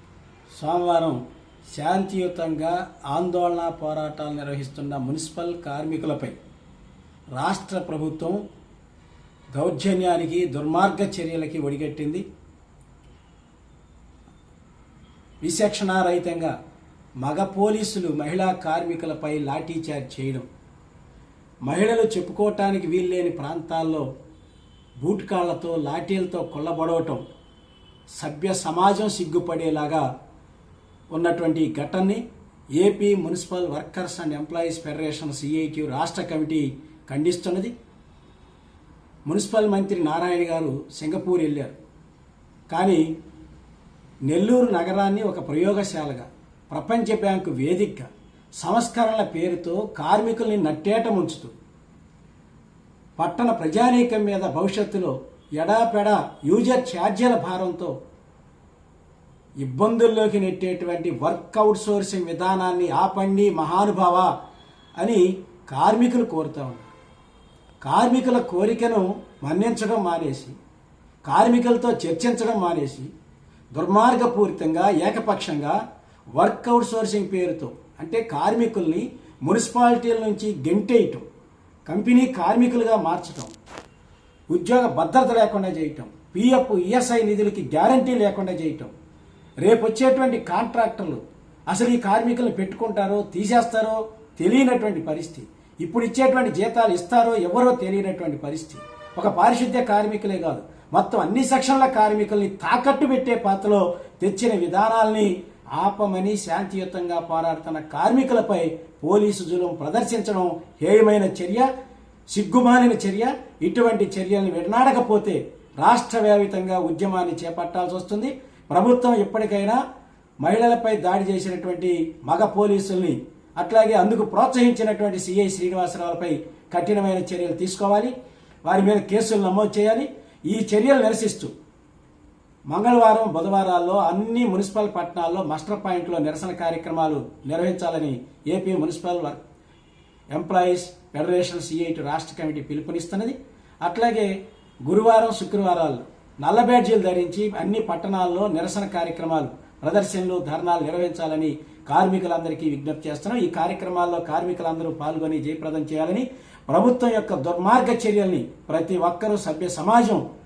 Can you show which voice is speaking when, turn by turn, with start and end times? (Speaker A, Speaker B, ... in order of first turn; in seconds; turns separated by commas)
Speaker A: 0.5-1.2, Speaker A: 1.7-6.4, Speaker A: 7.4-8.4, Speaker A: 9.5-12.2, Speaker A: 15.4-16.6, Speaker A: 17.2-20.5, Speaker A: 21.7-24.1, Speaker A: 25.0-27.2, Speaker A: 28.1-30.0, Speaker A: 31.1-32.2, Speaker A: 32.8-37.7, Speaker A: 39.3-41.8, Speaker A: 42.7-43.0, Speaker A: 44.3-48.1, Speaker A: 48.6-51.5, Speaker A: 53.2-57.9, Speaker A: 59.6-64.3, Speaker A: 65.0-66.9, Speaker A: 67.8-70.6, Speaker A: 71.3-73.1, Speaker A: 73.8-75.8, Speaker A: 76.3-81.2, Speaker A: 81.9-83.5, Speaker A: 84.5-88.9, Speaker A: 89.6-111.7, Speaker A: 112.3-119.8, Speaker A: 120.4-128.1, Speaker A: 128.7-131.5, Speaker A: 132.7-139.4, Speaker A: 140.3-144.3, Speaker A: 144.8-160.2